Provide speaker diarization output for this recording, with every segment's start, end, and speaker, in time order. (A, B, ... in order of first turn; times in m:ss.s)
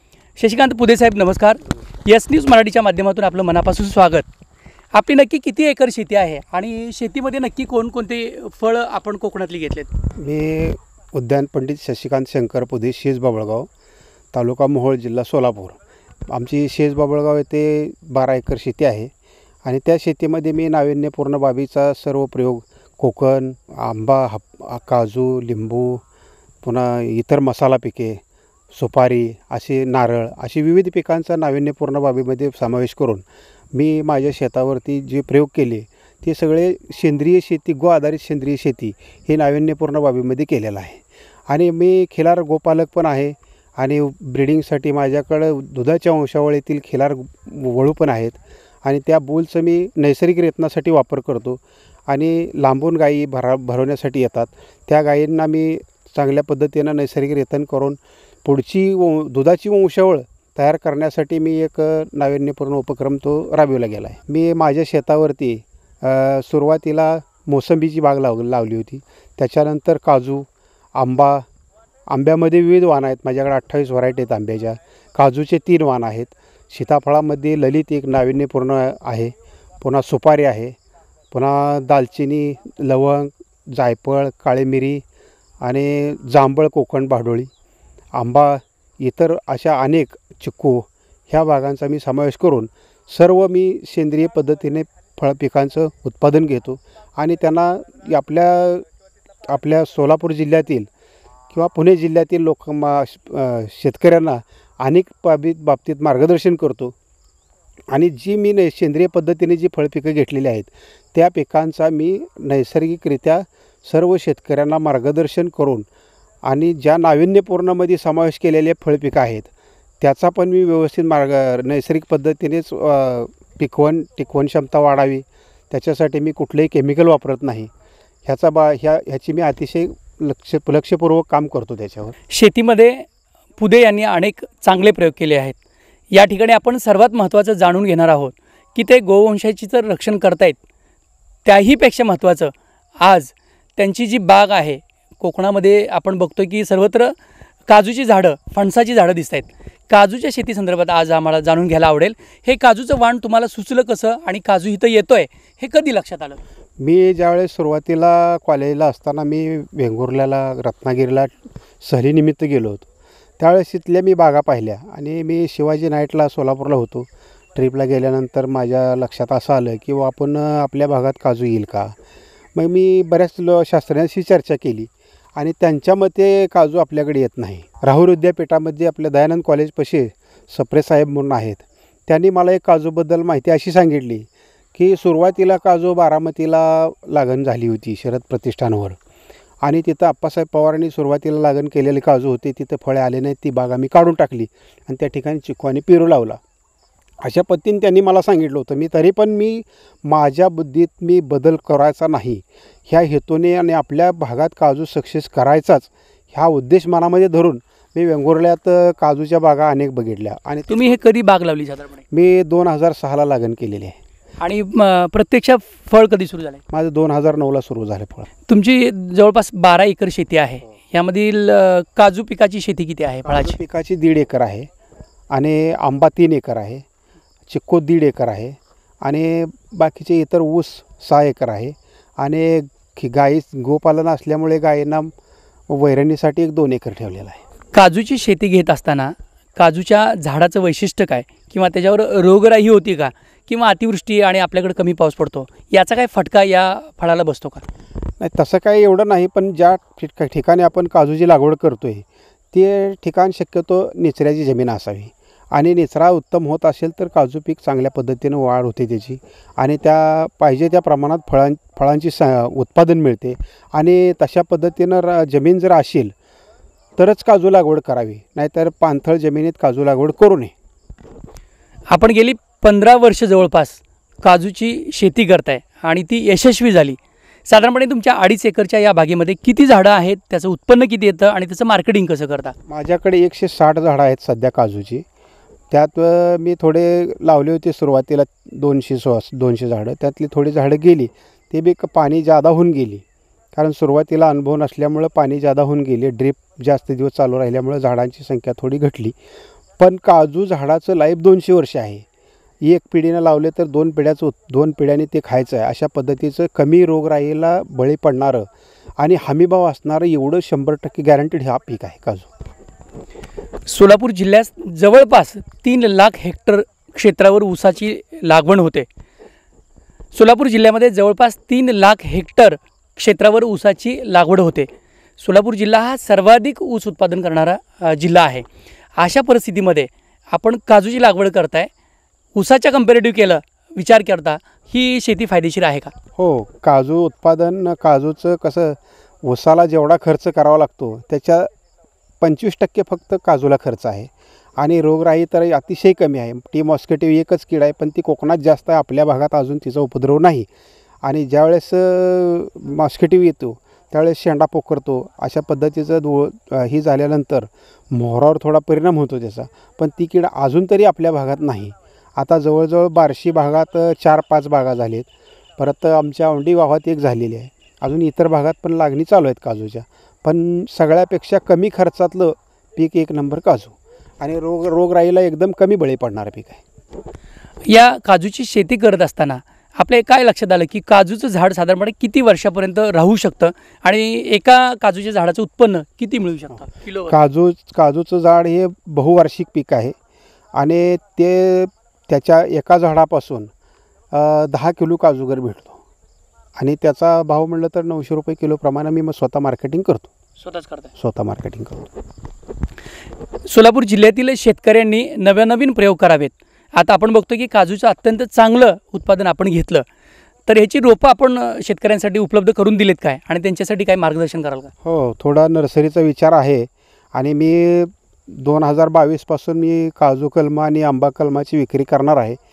0:00.4-0:04.3 A
0:04.9-0:09.9 A
0:10.2-0:13.7 B
0:14.3-0:15.8 B
0:16.3-0:19.1 B
0:19.6-0:26.0 B
0:26.6-0:28.2 B
0:28.7-1:11.4 B
1:12.1-1:20.8 B
1:21.3-1:25.0 B
1:25.6-1:27.5 B
1:28.1-1:38.8 B
1:39.4-1:40.9 B
1:41.5-1:46.9 B
1:47.9-1:55.8 B
1:56.4-1:59.5 B
2:00.0-2:07.7 B
2:08.2-2:12.2 B
2:12.3-2:13.1 A
2:13.6-2:15.6 A
2:16.1-2:20.6 A
2:21.4-2:27.1 A
2:27.7-2:36.4 A
2:36.8-2:42.9 B
2:43.4-2:51.9 B
2:52.5-3:09.0 B
3:09.6-3:16.4 B
3:17.2-3:30.9 B
3:30.7-3:32.0 A
3:32.1-3:34.0 B
3:34.4-3:36.6 A
3:36.7-3:38.3 B
3:38.5-3:43.6 A
3:43.2-3:44.7 B
3:45.3-3:46.8 B
3:47.5-3:55.1 B
3:55.7-3:57.4 B
3:57.7-4:07.6 A
4:08.2-4:26.1 B
4:27.0-4:30.5 B
4:31.9-4:42.5 A
4:42.7-4:45.0 B
4:45.7-4:59.1 B
4:59.8-5:02.0 B
5:02.6-5:08.5 B
5:09.0-5:12.3 B
5:13.6-5:18.9 A
5:20.1-5:28.4 A
5:29.0-5:31.7 A
5:32.3-5:35.9 A
5:36.2-5:41.5 B
5:42.2-5:50.5 B
5:51.0-6:16.6 B
6:17.6-6:27.1 A
6:27.1-6:29.9 B
6:30.6-6:33.5 B
6:34.1-6:35.8 B
6:36.6-6:40.1 B
6:40.4-6:40.9 A
6:41.0-6:41.9 B
6:43.4-6:49.8 A
6:50.5-6:54.7 A
6:54.8-7:02.4 B